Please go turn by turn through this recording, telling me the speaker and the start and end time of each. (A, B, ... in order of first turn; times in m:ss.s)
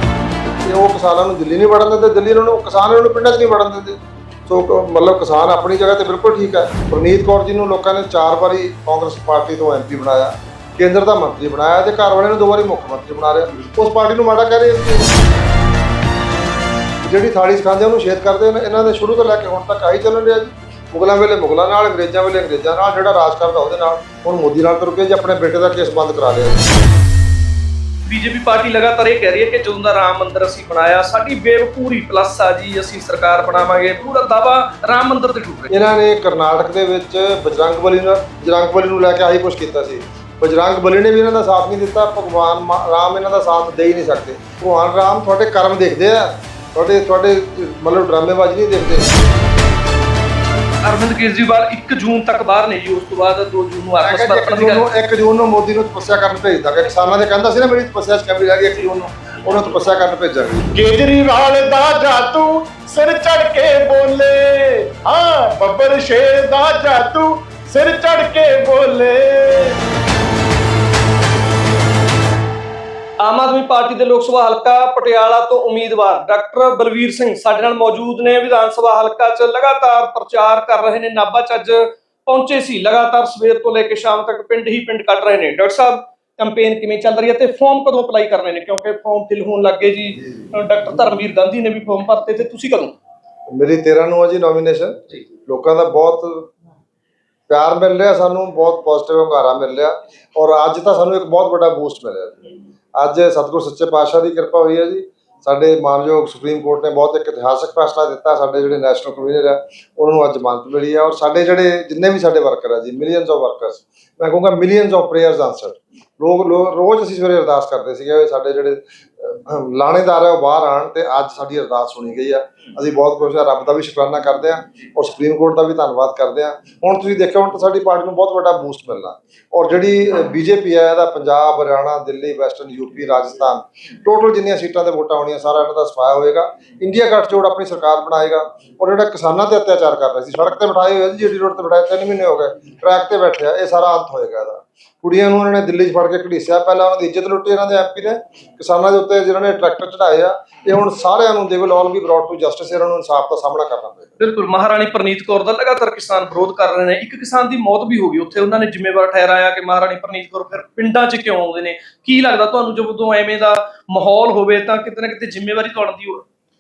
0:00.7-0:15.1 A
0:17.0-0:26.6 A
0:28.1-0:35.7 B
0:35.7-0:49.2 A
0:50.8-0:54.8 B
0:54.0-1:00.7 A
1:00.7-1:09.8 C
1:13.2-1:32.9 B
1:33.5-1:36.5 A
1:37.5-2:34.1 A
2:34.2-2:46.2 B